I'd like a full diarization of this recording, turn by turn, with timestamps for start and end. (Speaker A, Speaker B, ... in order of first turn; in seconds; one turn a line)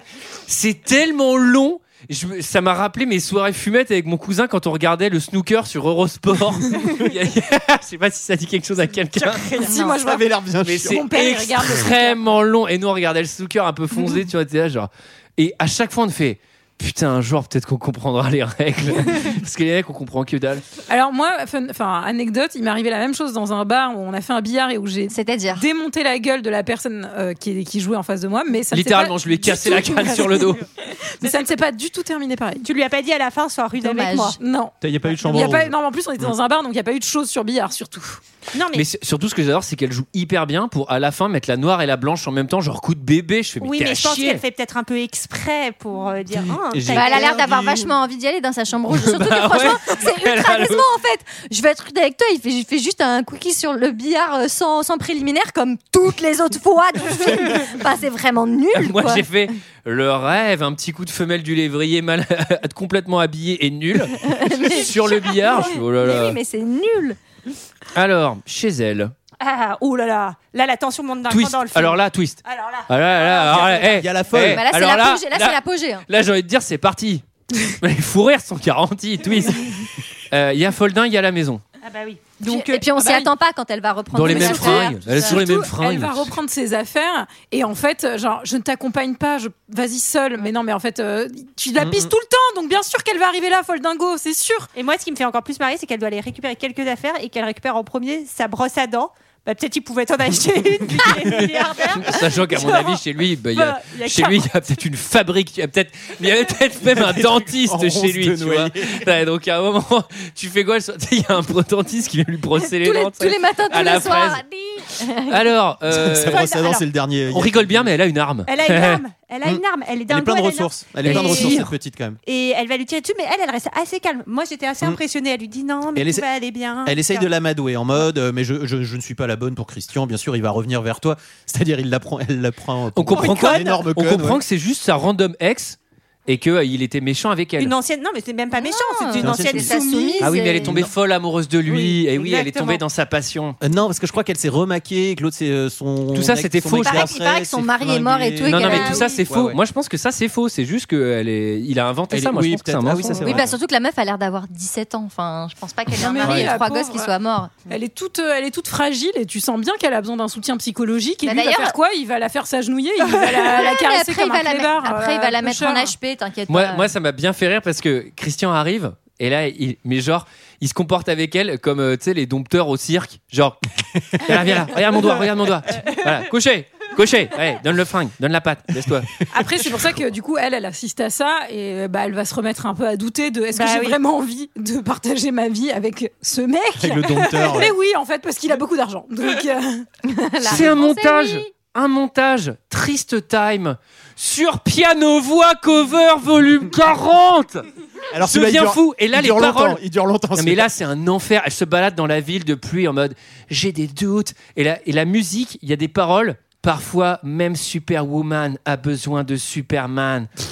Speaker A: 0.5-9.5
Speaker B: 9.3-9.7
Speaker C: 9.6-10.2
Speaker D: 9.7-11.1
Speaker A: 10.6-20.6
Speaker C: 10.8-12.2
Speaker C: 20.9-32.6
Speaker E: 25.1-25.6
Speaker A: 28.7-30.6
Speaker B: 29.6-30.4
Speaker B: 32.6-34.4
Speaker E: 33.8-34.3
Speaker C: 34.4-38.2
Speaker D: 34.8-36.3
Speaker B: 38.5-38.8
Speaker A: 38.7-44.4
Speaker B: 43.6-47.8
Speaker D: 46.3-47.6
Speaker E: 46.9-59.2
Speaker A: 48.9-50.8
Speaker A: 58.7-66.4
Speaker E: 64.2-67.2
Speaker A: 67.9-69.1
Speaker B: 69.4-73.8
Speaker A: 71.3-81.6
Speaker D: 73.5-74.6
Speaker E: 74.4-76.0
Speaker B: 81.8-83.0
Speaker E: 82.4-85.4
Speaker C: 83.0-83.3
Speaker A: 84.1-86.3
Speaker C: 84.2-94.7
Speaker D: 91.8-92.1
Speaker B: 94.7-103.0
Speaker A: 102.0-114.4
Speaker B: 103.5-104.5
Speaker D: 106.8-109.1
Speaker E: 112.6-115.5
Speaker A: 115.3-116.5
Speaker D: 115.9-117.9
Speaker B: 116.3-116.8
Speaker A: 117.3-119.0
Speaker B: 118.5-121.6
Speaker D: 119.4-122.2
Speaker A: 121.0-121.7
Speaker B: 122.2-127.3
Speaker D: 125.9-126.3
Speaker D: 126.8-134.4
Speaker A: 132.9-137.7
Speaker B: 133.1-133.8
Speaker B: 137.6-140.3
Speaker E: 138.5-140.8
Speaker D: 139.2-140.9
Speaker A: 140.2-143.6
Speaker B: 141.7-142.8
Speaker D: 143.6-149.6
Speaker A: 146.1-147.1
Speaker E: 146.8-149.2
Speaker A: 148.4-153.4
Speaker D: 152.1-153.6
Speaker E: 153.2-157.5
Speaker C: 155.9-157.1
Speaker C: 157.7-165.9
Speaker E: 161.2-161.8
Speaker E: 163.5-166.9
Speaker A: 166.5-173.6
Speaker D: 174.0-174.6
Speaker A: 174.1-179.2
Speaker C: 179.3-190.6
Speaker B: 183.5-184.0
Speaker D: 186.8-187.7
Speaker E: 190.2-191.5
Speaker A: 190.5-197.7
Speaker D: 198.1-200.7
Speaker A: 198.2-199.8
Speaker A: 200.3-210.3